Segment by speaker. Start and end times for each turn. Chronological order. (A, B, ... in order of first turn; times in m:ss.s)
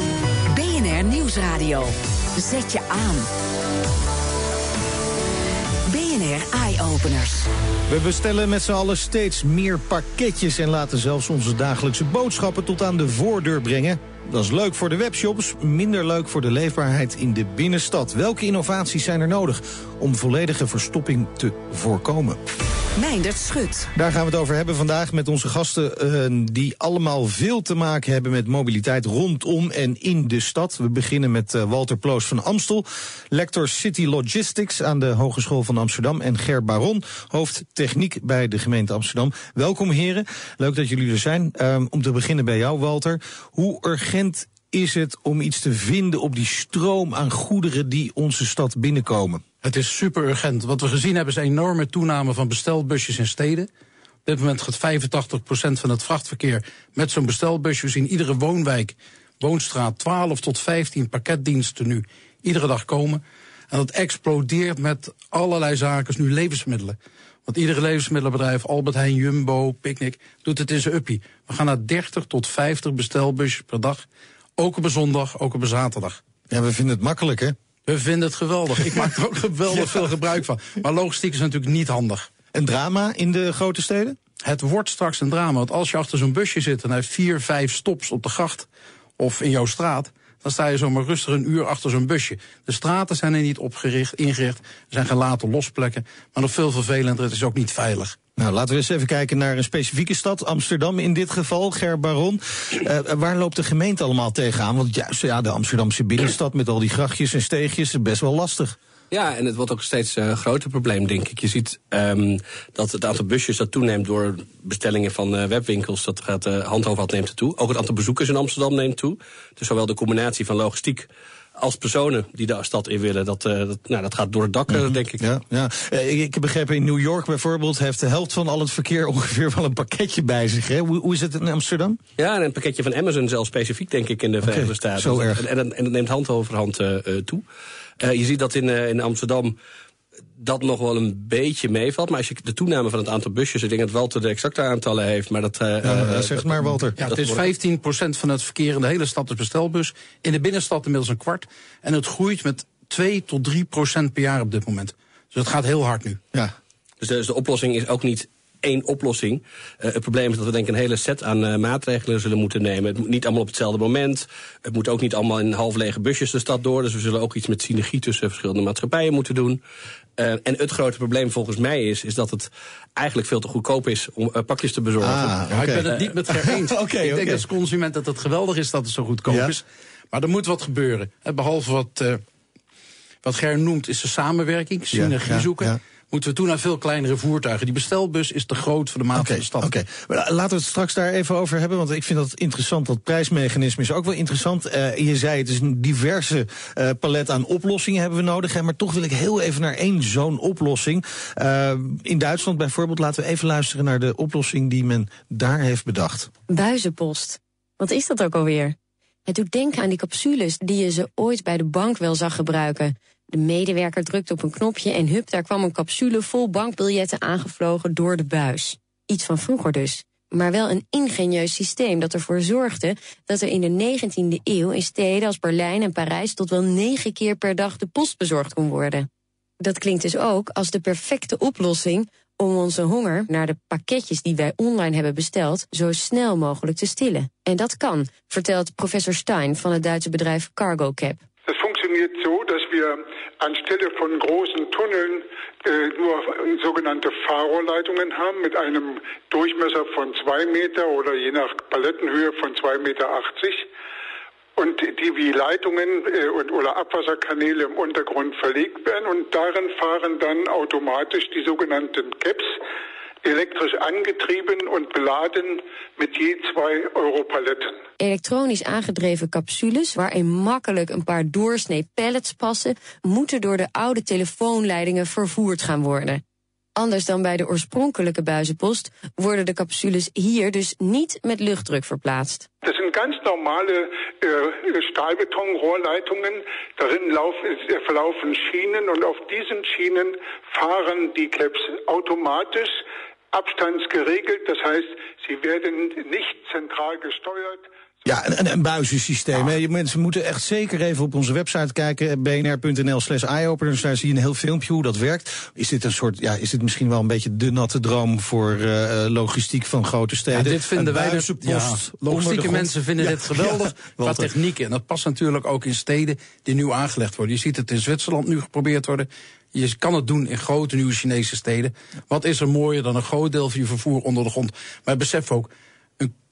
0:00.5-0:03.3 A
0:05.9-0:07.5 A
0:07.9-0:22.4 B
0:23.0-0:23.9 A
0:24.0-0:49.4 B
0:49.6-0:53.7 C
0:54.2-1:14.0 C
1:14.6-1:16.2 C
1:16.5-1:17.6 B
1:17.9-1:22.3 C
1:22.5-1:24.2 B
1:24.4-1:28.7 C
1:29.2-1:38.2 C
1:38.4-1:48.8 B
1:49.1-2:05.2 D
2:04.7-2:12.0 B
2:12.2-2:17.4 D
2:14.4-2:15.4 B
2:18.0-2:19.6 D
2:20.4-2:27.4 D
2:25.8-2:27.0 B
2:27.0-2:36.2 C
2:37.0-2:49.6 D
2:50.2-2:55.4 D
2:55.0-2:57.5 B
2:55.5-3:02.2 C
2:59.3-2:59.5 B
3:03.2-3:09.7 C
3:04.9-3:05.8 B
3:09.1-3:26.3 B
3:26.5-3:28.8 E
3:29.3-3:49.1 E
3:49.6-4:01.2 E
4:01.5-4:13.7 F
4:14.6-4:22.6 F
4:23.2-4:27.8 F
4:28.0-4:36.2 E
4:36.8-4:42.5 E
4:42.6-4:57.7 F
4:58.0-5:14.3 B
5:10.3-5:26.1 C